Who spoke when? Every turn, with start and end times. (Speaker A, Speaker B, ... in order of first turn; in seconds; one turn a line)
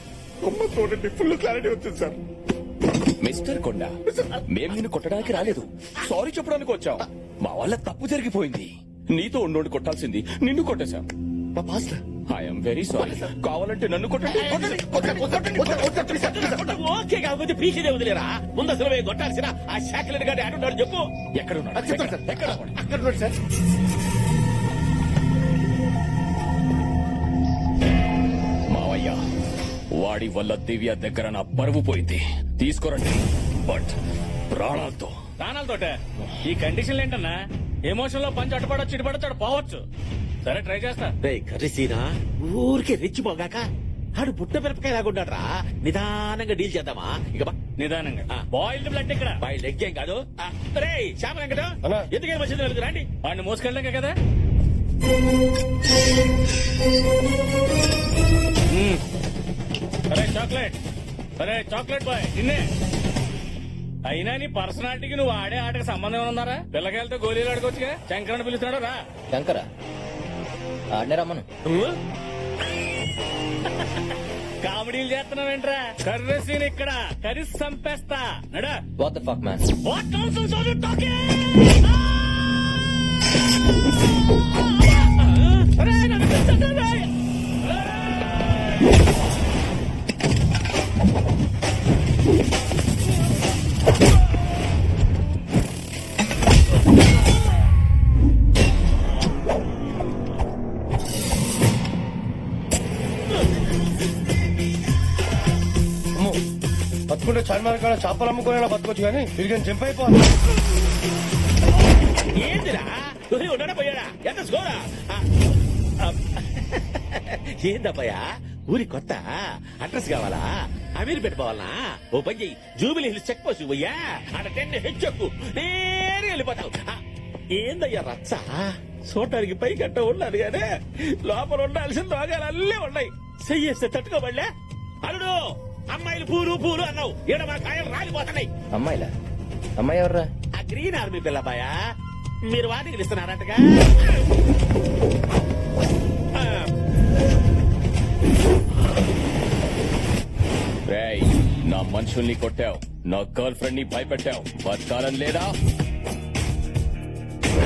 Speaker A: 0.4-2.2
Speaker B: 3.2-3.9
Speaker A: 4.1-4.4
Speaker B: 4.5-11.1
Speaker A: 11.6-12.0
Speaker B: 12.3-16.0
Speaker A: 13.0-13.3
Speaker A: 14.2-16.7
Speaker C: 16.1-21.1
Speaker B: 21.4-22.7
Speaker A: 21.8-23.4
Speaker B: 28.7-29.2
Speaker B: 29.9-34.0
Speaker B: 34.5-35.1
Speaker D: 35.4-39.8
Speaker D: 40.4-41.1
Speaker C: 41.2-43.6
Speaker C: 44.2-47.6
Speaker D: 47.8-49.4
Speaker C: 49.4-53.1
Speaker D: 53.2-54.2
Speaker D: 58.7-59.0
Speaker D: 60.1-60.8
Speaker D: 61.4-62.7
Speaker D: 64.0-69.0
Speaker E: 69.3-69.7
Speaker E: 70.9-71.5
Speaker D: 74.6-78.8
Speaker E: 79.0-79.6
Speaker D: 79.8-82.2
Speaker D: 85.2-87.1
Speaker F: 107.1-110.2
Speaker C: 112.3-115.3
Speaker C: 116.0-127.0
Speaker C: 127.5-130.7
Speaker C: 131.2-134.5
Speaker C: 135.0-135.4
Speaker C: 135.9-138.5
Speaker E: 138.7-139.1
Speaker E: 139.8-140.3
Speaker C: 140.6-141.7
Speaker C: 142.5-144.2
Speaker C: 146.4-146.7
Speaker B: 150.9-155.5